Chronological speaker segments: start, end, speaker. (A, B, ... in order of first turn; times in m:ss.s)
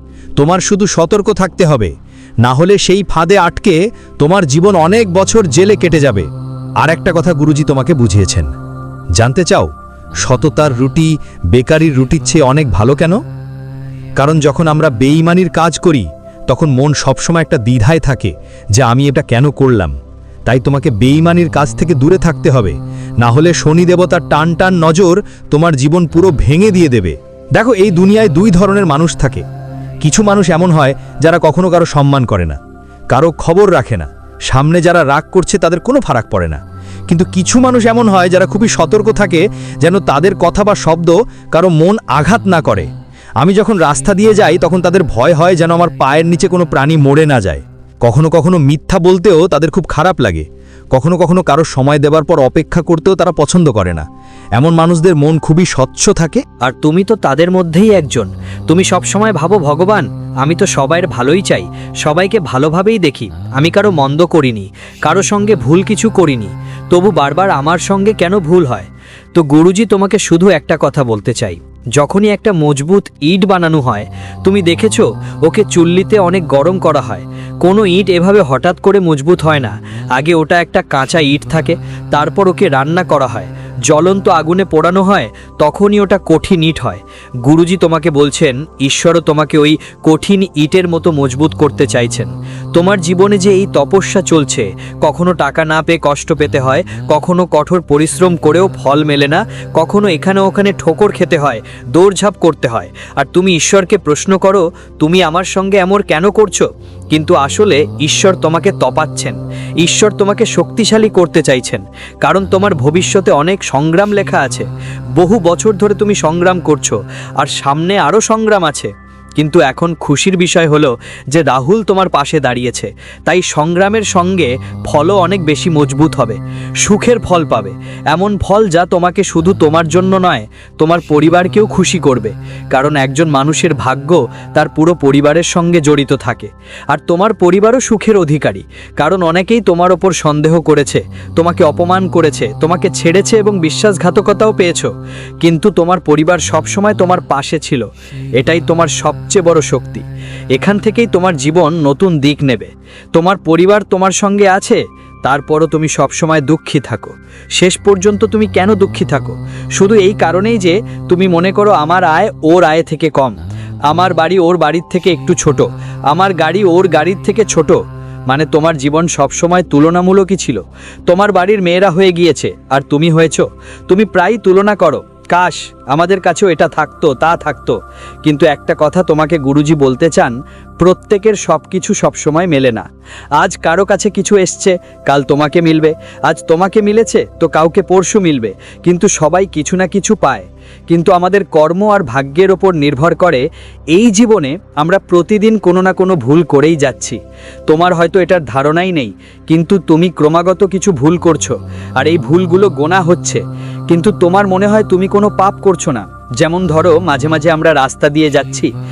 0:00.4-0:01.9 A
0:02.4-0:06.3 A
0:06.8-0:08.5 A
0:09.2-0:09.7 A
0:10.2-0:13.2 A
0:14.2-0:20.0 A
0:20.5-0:29.4 A
0:30.0-0:32.6 A
0:33.1-0:42.9 A
0:43.4-0:54.0 A
0:54.6-0:56.4 A
0:56.6-1:27.0 B
1:12.4-1:13.2 A
1:14.6-1:14.9 A
1:15.6-1:16.4 A
1:17.7-1:19.4 A
1:21.2-1:21.4 A
1:22.2-1:23.0 A
1:24.3-1:25.0 A
1:25.9-1:26.8 A
1:27.5-1:29.0 A
1:27.5-1:54.6 B
1:29.9-1:32.2 A
1:32.8-1:34.6 A
1:35.2-1:38.3 A
1:39.9-1:43.0 A
1:43.5-1:44.6 A
1:45.2-1:46.4 A
1:47.4-1:49.2 A
1:50.0-1:51.7 A
1:52.3-1:54.6 A
1:55.2-2:10.2 B
1:55.2-1:56.8 A
1:57.9-1:58.8 A
1:59.5-2:00.8 A
2:01.4-2:02.9 A
2:04.9-2:06.1 A
2:07.1-2:07.7 A
2:08.2-2:12.2 A
2:10.8-2:17.0 B
2:13.0-2:16.4 A
2:16.9-2:24.9 A
2:17.8-2:18.2 B
2:19.0-2:23.0 B
2:24.3-2:24.8 B
2:25.4-2:27.8 B
2:25.6-2:27.8 A
2:28.4-2:29.9 B
2:28.4-2:30.0 A
2:30.6-2:32.7 A
2:30.6-2:32.6 B
2:33.2-2:34.7 B
2:33.3-2:34.8 A
2:35.3-2:37.0 B
2:35.3-2:43.2 A
2:37.7-2:43.4 B
2:43.9-2:47.8 B
2:43.9-2:45.6 A
2:46.2-2:47.7 A
2:48.3-3:02.8 B
2:48.5-2:50.5 A
2:51.1-2:53.3 A
2:53.9-2:54.8 A
2:56.2-2:57.4 A
2:58.6-3:00.1 A
3:01.1-3:02.8 A
3:03.4-3:17.2 B
3:03.4-3:04.7 A
3:05.6-3:05.9 A
3:06.8-3:10.4 A
3:11.0-3:13.3 A
3:14.0-3:16.4 A
3:16.9-3:17.1 A
3:17.7-3:23.4 B
3:17.9-3:18.7 A
3:19.6-3:21.4 A
3:22.0-3:23.4 A
3:23.9-3:28.7 B
3:24.1-3:25.7 A
3:26.4-3:28.6 A